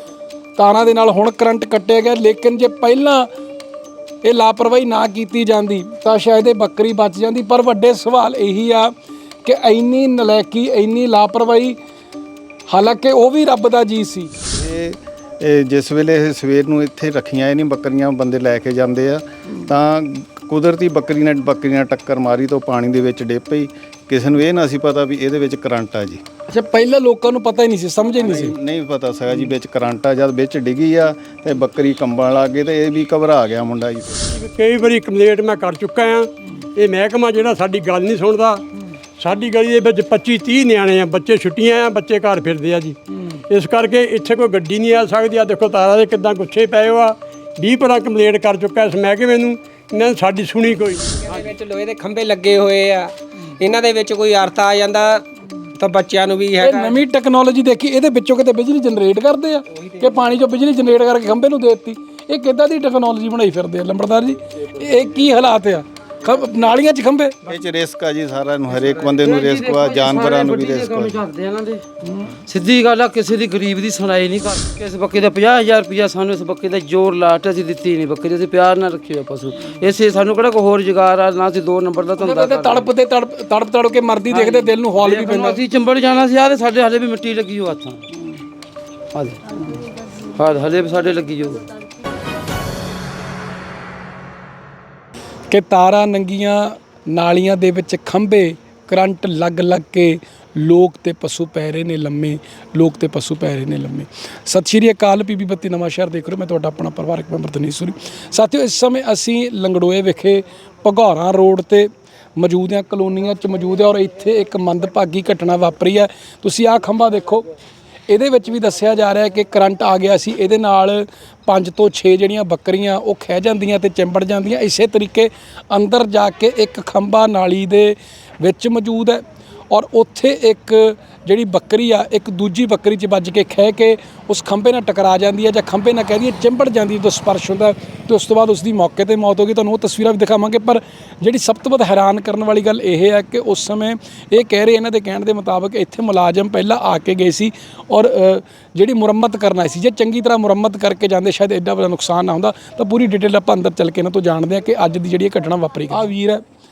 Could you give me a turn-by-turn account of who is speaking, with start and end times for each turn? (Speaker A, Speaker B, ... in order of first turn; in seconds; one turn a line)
Speaker A: 0.6-3.3
Speaker A: 4.2-8.9
Speaker A: 9.4-11.8
Speaker A: 12.7-14.3
Speaker B: 14.5-26.2
Speaker A: 26.5-28.5
Speaker B: 28.2-34.3
Speaker C: 34.3-38.6
Speaker C: 39.2-43.0
Speaker C: 43.5-51.4
Speaker D: 51.1-55.2
Speaker D: 55.8-57.0
Speaker A: 56.6-67.3
Speaker B: 67.5-71.2
Speaker E: 68.7-71.8
Speaker E: 72.5-82.9
Speaker A: 82.2-85.6
Speaker E: 84.3-88.0
Speaker E: 89.1-89.4
Speaker E: 90.3-91.7
Speaker A: 95.5-117.5
Speaker A: 118.1-156.4